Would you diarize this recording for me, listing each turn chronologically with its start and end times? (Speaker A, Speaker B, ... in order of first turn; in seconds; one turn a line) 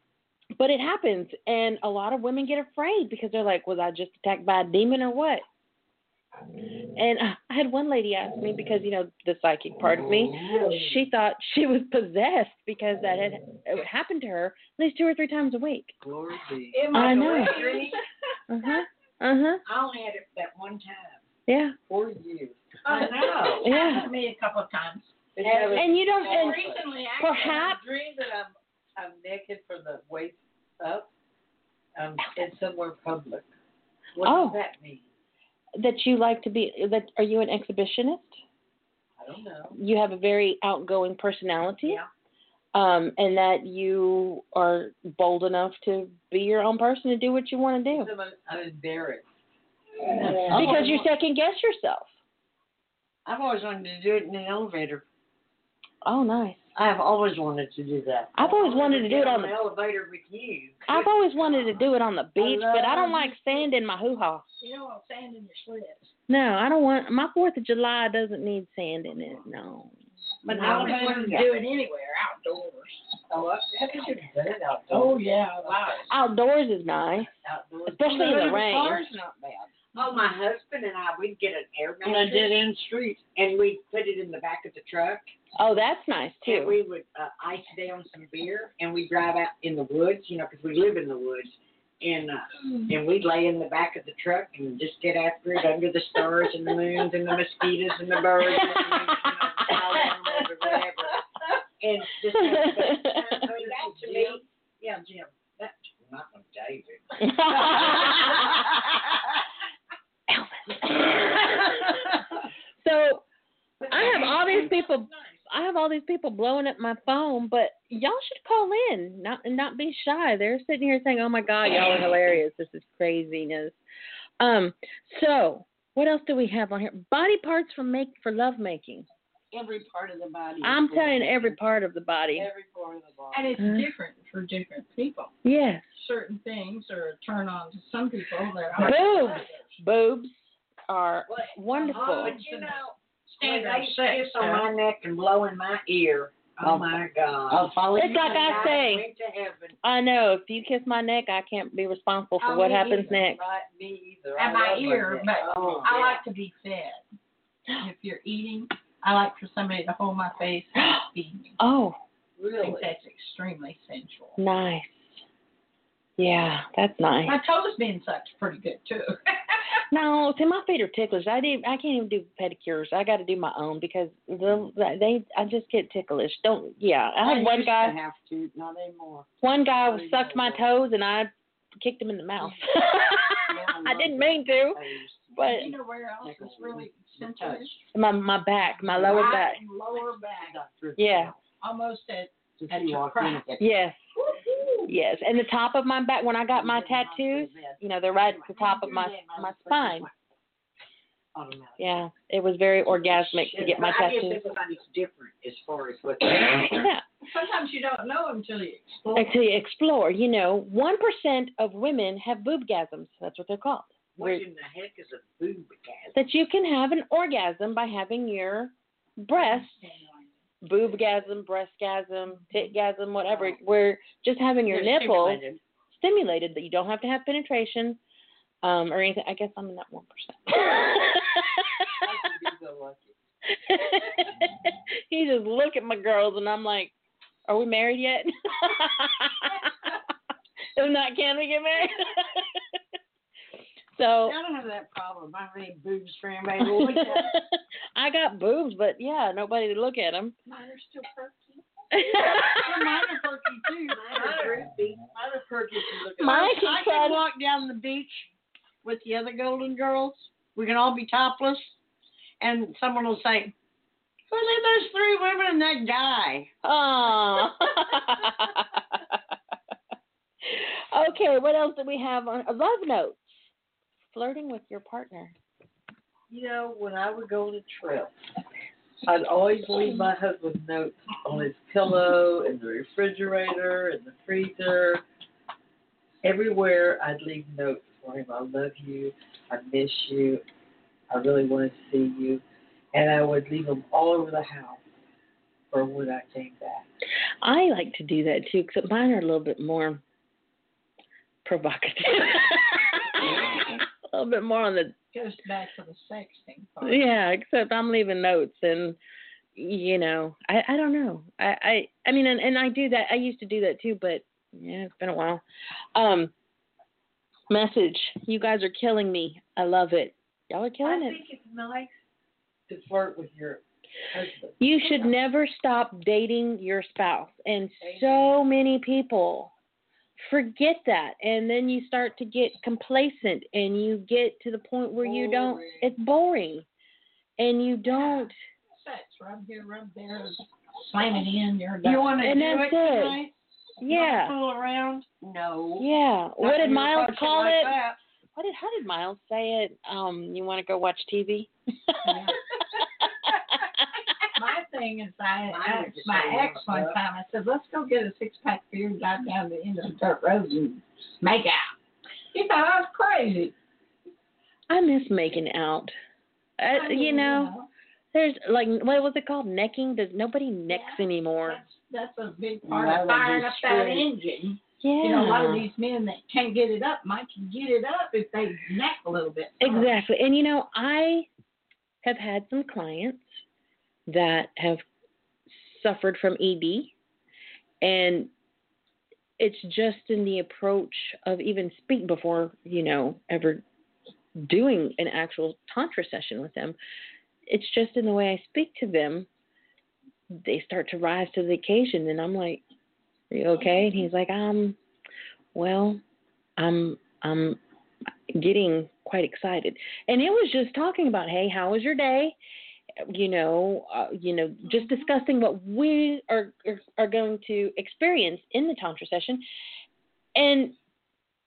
Speaker A: 0.6-5.4
Speaker A: 6.9-15.9
Speaker B: 16.0-17.4
Speaker C: 16.7-18.0
Speaker A: 16.9-17.8
Speaker A: 18.5-19.6
Speaker D: 19.6-21.2
Speaker A: 21.5-21.8
Speaker B: 21.9-22.8
Speaker C: 22.8-25.1
Speaker D: 22.9-23.6
Speaker E: 23.2-23.5
Speaker A: 23.6-24.1
Speaker B: 25.3-26.8
Speaker D: 25.4-25.8
Speaker A: 25.7-26.6
Speaker C: 26.1-27.7
Speaker A: 27.2-27.8
Speaker B: 27.4-31.1
Speaker B: 31.9-33.5
Speaker B: 34.1-35.1
Speaker A: 34.2-34.6
Speaker A: 35.8-38.4
Speaker B: 39.2-39.8
Speaker A: 39.7-42.0
Speaker A: 42.7-48.1
Speaker B: 47.9-49.3
Speaker B: 50.1-50.9
Speaker E: 50.4-51.0
Speaker A: 50.5-52.1
Speaker E: 53.3-55.0
Speaker A: 56.0-56.7
Speaker E: 56.7-61.1
Speaker A: 58.3-59.5
Speaker A: 60.9-64.4
Speaker E: 62.4-63.3
Speaker C: 64.6-66.1
Speaker A: 66.3-69.9
Speaker D: 70.5-71.4
Speaker C: 70.5-73.1
Speaker E: 70.5-71.5
Speaker B: 73.3-76.0
Speaker C: 74.9-76.0
Speaker A: 76.1-77.3
Speaker E: 77.8-79.7
Speaker A: 77.9-79.0
Speaker D: 79.9-82.5
Speaker E: 82.0-83.3
Speaker D: 83.3-85.3
Speaker A: 85.5-86.8
Speaker D: 86.4-101.3
Speaker D: 101.8-108.7
Speaker A: 102.4-103.4
Speaker A: 107.2-108.4
Speaker A: 110.3-112.2
Speaker A: 112.8-113.2
Speaker A: 113.9-123.8
Speaker D: 114.1-115.3
Speaker A: 124.4-129.1
Speaker E: 129.5-131.5
Speaker A: 130.6-132.5
Speaker B: 132.3-133.6
Speaker C: 133.3-135.3
Speaker A: 133.6-133.9
Speaker A: 135.4-136.0
Speaker C: 135.9-139.8
Speaker A: 138.8-142.4
Speaker D: 141.3-149.8
Speaker C: 141.8-144.3
Speaker E: 144.4-144.6
Speaker E: 146.6-148.8
Speaker A: 147.9-149.1
Speaker A: 149.8-153.4
Speaker C: 152.4-153.1
Speaker B: 152.5-156.0
Speaker C: 154.4-157.0
Speaker D: 155.5-156.2
Speaker E: 155.6-155.8
Speaker C: 157.8-161.6
Speaker A: 161.6-162.0
Speaker B: 162.4-162.9
Speaker C: 162.6-164.4
Speaker A: 164.4-165.2
Speaker A: 166.2-167.4
Speaker C: 167.2-169.8
Speaker A: 169.9-177.9
Speaker E: 177.2-179.3
Speaker A: 179.4-184.8
Speaker B: 179.8-180.6
Speaker E: 183.4-185.6
Speaker A: 185.4-185.7
Speaker C: 185.4-187.8
Speaker E: 186.2-187.8
Speaker A: 187.9-189.6
Speaker E: 189.0-189.3
Speaker C: 189.0-190.6
Speaker E: 190.4-191.3
Speaker A: 191.0-191.4
Speaker C: 191.6-193.5
Speaker E: 192.6-193.6
Speaker A: 193.6-194.0
Speaker C: 194.2-194.9
Speaker A: 194.9-200.1
Speaker D: 196.5-200.1
Speaker E: 201.4-201.8
Speaker D: 201.4-201.8
Speaker A: 201.8-204.5
Speaker D: 203.1-206.8
Speaker A: 206.7-207.0
Speaker C: 207.3-209.3
Speaker A: 209.2-214.4
Speaker D: 214.2-216.1
Speaker A: 216.1-219.8
Speaker C: 219.3-220.4
Speaker A: 220.6-228.0
Speaker E: 224.7-225.6
Speaker A: 228.6-231.9
Speaker B: 232.0-233.2
Speaker A: 233.5-236.9
Speaker A: 237.5-239.9
Speaker A: 240.7-242.6
Speaker A: 243.9-244.4
Speaker E: 244.2-247.3
Speaker A: 246.6-250.3
Speaker C: 250.4-253.4
Speaker A: 251.9-252.7
Speaker E: 252.5-254.4
Speaker D: 253.9-255.1
Speaker B: 254.2-254.5
Speaker B: 255.1-256.5
Speaker E: 256.1-258.3
Speaker A: 256.2-257.2
Speaker E: 258.8-261.8
Speaker E: 262.4-263.5
Speaker E: 264.3-266.5
Speaker A: 266.6-269.2
Speaker A: 270.4-273.5
Speaker A: 274.1-275.3
Speaker B: 276.3-278.1
Speaker B: 279.0-285.0
Speaker B: 286.2-290.4
Speaker B: 291.1-294.8
Speaker B: 295.7-296.9
Speaker A: 297.4-300.0
Speaker A: 301.4-304.9
Speaker C: 305.1-307.1
Speaker A: 306.8-309.0
Speaker A: 309.6-315.4
Speaker A: 315.9-316.3
Speaker A: 317.5-321.2
Speaker B: 320.8-322.0
Speaker B: 322.7-325.1
Speaker A: 324.6-329.5
Speaker B: 327.8-328.4
Speaker A: 330.2-336.6
Speaker B: 335.0-335.8
Speaker A: 337.4-338.3
Speaker C: 337.9-342.3
Speaker E: 341.8-345.9
Speaker A: 342.2-343.2
Speaker A: 343.8-344.4
Speaker A: 345.8-347.8
Speaker E: 346.4-348.0
Speaker A: 348.4-352.3
Speaker C: 352.0-352.5
Speaker A: 353.6-353.9
Speaker C: 354.3-361.7
Speaker D: 355.5-356.9
Speaker C: 362.3-363.5
Speaker A: 364.7-365.9
Speaker A: 366.6-367.5
Speaker C: 366.7-367.7
Speaker A: 368.1-371.6
Speaker C: 370.7-380.0
Speaker E: 372.6-374.1
Speaker A: 374.8-375.6
Speaker A: 379.6-381.3
Speaker A: 382.0-383.4
Speaker A: 384.1-384.8
Speaker A: 385.5-386.9
Speaker A: 387.8-388.3
Speaker A: 389.4-393.6
Speaker A: 394.4-396.8
Speaker A: 397.5-399.3
Speaker A: 400.4-402.6
Speaker A: 403.3-404.8
Speaker A: 405.6-406.0
Speaker A: 406.6-407.6
Speaker A: 408.3-412.4
Speaker A: 413.1-419.4
Speaker A: 420.3-420.8